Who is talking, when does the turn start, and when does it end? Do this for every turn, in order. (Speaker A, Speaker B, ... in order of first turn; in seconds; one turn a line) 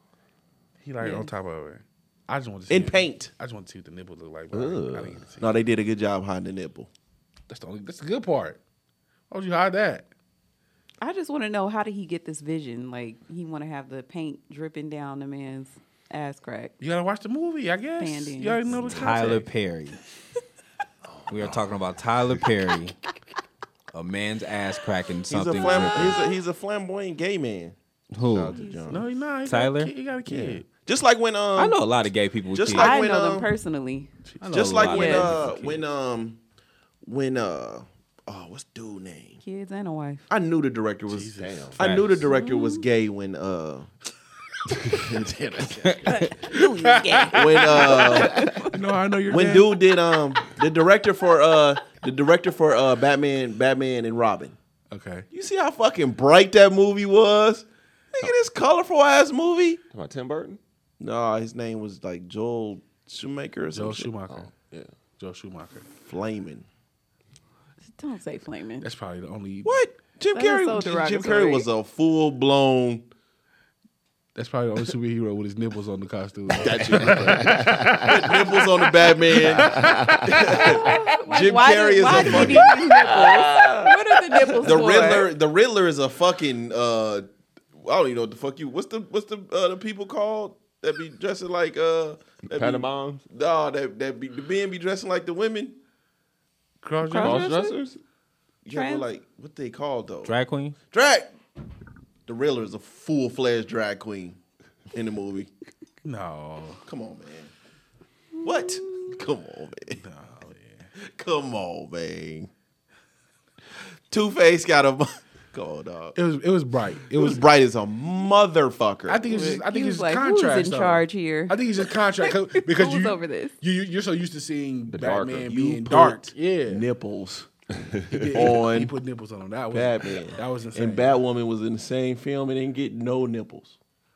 Speaker A: 0.8-5.6
Speaker B: 1.0-1.3
Speaker C: 2.7-3.3
Speaker D: 4.5-5.2
Speaker C: 5.4-6.9
Speaker A: 7.5-8.6
Speaker A: 9.3-10.1
Speaker B: 11.0-16.7
Speaker A: 16.8-19.5
Speaker B: 18.0-19.1
Speaker E: 18.9-20.0
Speaker D: 21.2-21.5
Speaker E: 21.3-23.0
Speaker E: 23.9-26.3
Speaker C: 25.3-29.1
Speaker B: 25.5-26.3
Speaker E: 28.1-28.6
Speaker B: 28.4-29.0
Speaker A: 28.9-30.7
Speaker E: 29.5-29.9
Speaker C: 30.3-31.8
Speaker E: 31.6-33.0
Speaker C: 32.5-33.5
Speaker B: 32.7-34.1
Speaker A: 34.4-35.8
Speaker C: 34.5-36.4
Speaker E: 34.5-35.6
Speaker B: 34.9-35.3
Speaker C: 37.0-39.4
Speaker B: 39.4-40.3
Speaker C: 40.3-43.9
Speaker A: 41.1-41.7
Speaker D: 41.4-41.8
Speaker E: 41.8-42.3
Speaker B: 42.2-42.9
Speaker C: 44.9-46.3
Speaker E: 45.9-46.2
Speaker B: 46.1-48.8
Speaker A: 46.3-50.0
Speaker C: 47.3-48.5
Speaker D: 48.3-48.6
Speaker C: 49.3-54.6
Speaker A: 54.9-55.3
Speaker C: 55.3-59.8
Speaker D: 59.9-60.6
Speaker C: 61.0-64.1
Speaker A: 63.7-64.5
Speaker D: 64.3-64.9
Speaker A: 65.2-65.9
Speaker C: 66.0-66.7
Speaker B: 67.9-68.9
Speaker A: 68.8-69.7
Speaker C: 69.6-73.1
Speaker B: 70.3-71.7
Speaker A: 74.3-80.4
Speaker C: 76.5-82.8
Speaker D: 76.9-78.1
Speaker D: 79.5-80.3
Speaker B: 80.3-85.3
Speaker A: 82.0-82.5
Speaker D: 82.2-85.0
Speaker C: 84.6-87.3
Speaker C: 87.8-95.8
Speaker D: 92.5-93.2
Speaker A: 96.8-97.5
Speaker B: 97.0-97.8
Speaker D: 97.2-98.0
Speaker C: 98.7-100.4
Speaker B: 98.7-99.0
Speaker E: 100.2-100.8
Speaker C: 100.9-101.3
Speaker C: 102.3-104.4
Speaker C: 104.9-105.5
Speaker A: 106.0-106.8
Speaker C: 106.8-107.5
Speaker B: 108.4-109.1
Speaker C: 108.4-110.0
Speaker A: 110.0-110.9
Speaker C: 111.0-112.5
Speaker C: 114.1-116.2
Speaker A: 116.2-117.4
Speaker C: 117.1-119.3
Speaker A: 119.1-126.8
Speaker B: 119.3-123.6
Speaker D: 124.9-125.5
Speaker C: 125.5-127.5
Speaker A: 128.1-131.2
Speaker C: 128.3-128.9
Speaker C: 129.7-133.8